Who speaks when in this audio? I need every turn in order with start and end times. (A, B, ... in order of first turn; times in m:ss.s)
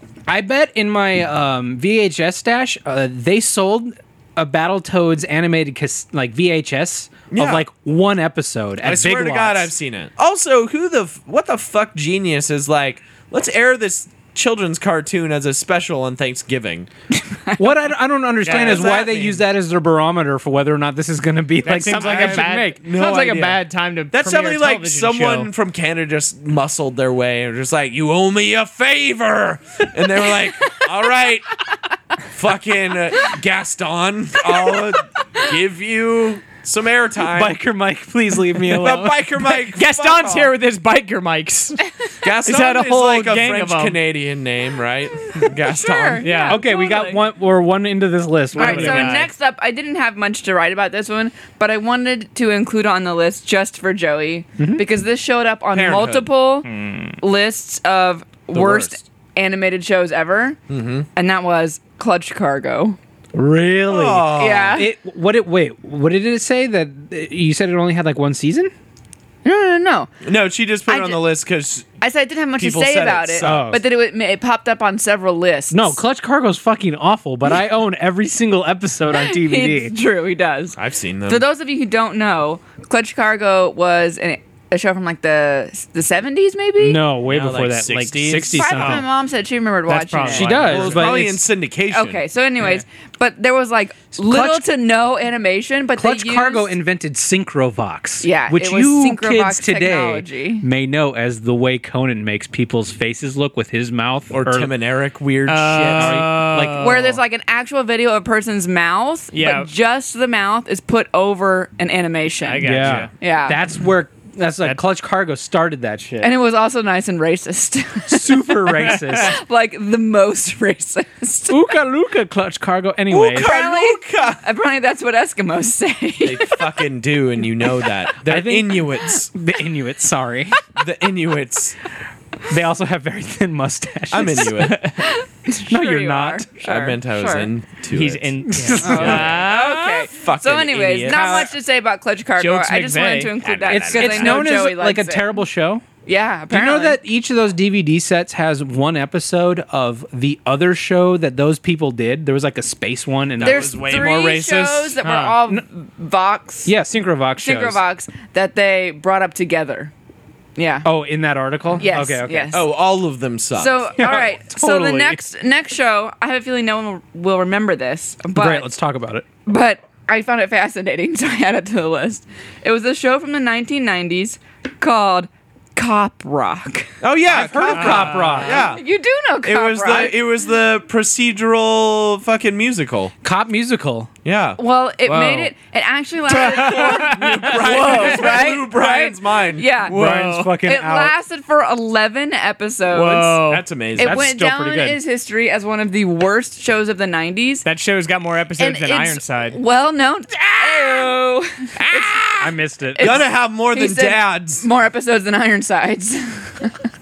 0:00.3-0:09.7 A
0:07.3-0:07.7 B
0:08.8-0:16.9 B
0:17.3-0:17.7 C
0:17.6-0:22.8 A
0:18.4-0:19.0 D
0:18.5-0:19.4 B
0:21.6-0:25.5 D
0:22.0-0:31.5 B
0:32.3-0:37.6 B
0:37.3-0:39.4 A
0:38.6-0:40.5 B
0:39.5-0:41.9 D
0:42.2-0:46.4 B
0:42.4-0:44.0 D
0:45.2-0:47.2 C
0:46.2-0:46.6 D
0:46.5-0:49.2 A
0:48.5-0:49.3 D
0:48.6-0:56.7 C
0:54.6-0:54.9 A
0:55.7-0:56.3 B
0:56.7-0:57.2 D
0:57.2-1:00.6 C
0:58.5-0:59.0 B
1:00.7-1:01.1 B
1:01.2-1:03.0 C
1:03.3-1:08.7 A
1:03.9-1:04.9 B
1:04.4-1:04.9 C
1:09.4-1:10.1 C
1:10.2-1:12.0 B
1:10.9-1:11.2 C
1:12.0-1:16.0 C
1:12.6-1:13.8 B
1:13.4-1:13.8 A
1:15.7-1:20.0 A
1:19.1-1:27.1 C
1:20.8-1:21.5 B
1:26.8-1:29.1 A
1:27.2-1:28.8 B
1:28.5-1:31.0 C
1:28.8-1:29.0 D
1:29.9-1:31.2 D
1:30.2-1:31.4 A
1:30.6-1:32.2 B
1:31.9-1:36.7 C
1:34.2-1:34.7 A
1:36.0-1:44.7 A
1:38.2-1:40.6 C
1:44.3-1:47.2 B
1:45.5-1:47.0 D
1:46.8-1:53.6 C
1:49.3-1:49.7 D
1:52.4-1:53.1 D
1:52.6-1:56.3 A
1:56.2-2:01.6 C
1:58.1-1:59.4 A
1:58.9-1:59.3 D
2:01.5-2:03.5 A
2:03.1-2:04.4 B
2:03.4-2:06.6 C
2:06.2-2:09.3 B
2:08.2-2:10.6 A
2:10.8-2:11.8 B
2:12.5-2:14.9 A
2:14.1-2:14.9 B
2:14.6-2:14.9 D
2:15.0-2:17.5 C
2:15.7-2:16.5 A
2:16.6-2:19.4 B
2:17.9-2:20.1 D
2:18.5-2:19.4 A
2:18.8-2:25.4 C
2:20.1-2:21.5 B
2:21.1-2:21.5 A
2:22.4-2:24.1 D
2:23.4-2:24.4 B
2:23.7-2:25.8 A
2:26.1-2:27.0 C
2:26.5-2:34.0 A
2:33.4-2:35.0 B
2:33.4-2:36.7 C
2:35.0-2:35.4 D
2:36.6-2:37.8 A
2:37.4-2:39.9 C
2:40.6-2:40.9 C
2:40.8-2:42.6 A
2:41.8-2:42.7 C
2:42.5-2:44.0 B
2:43.6-2:48.7 C
2:44.0-2:45.2 A
2:48.4-2:49.2 A
2:49.5-2:57.0 C
2:57.0-2:58.8 B
2:57.3-2:58.6 A
2:57.7-2:58.6 D
2:58.5-3:00.2 C
2:59.4-3:03.1 B
3:03.2-3:04.1 A
3:04.2-3:04.6 B
3:04.6-3:10.0 C
3:05.1-3:05.5 D
3:06.3-3:08.2 D
3:06.6-3:09.7 B
3:09.9-3:11.1 A
3:09.9-3:10.6 D
3:10.6-3:13.5 C
3:12.9-3:14.9 D
3:13.4-3:14.2 B
3:14.0-3:17.6 C
3:14.1-3:15.0 A
3:17.6-3:19.6 D
3:18.6-3:22.3 C
3:20.5-3:21.0 B
3:21.8-3:24.7 B
3:22.4-3:23.2 A
3:23.0-3:26.8 C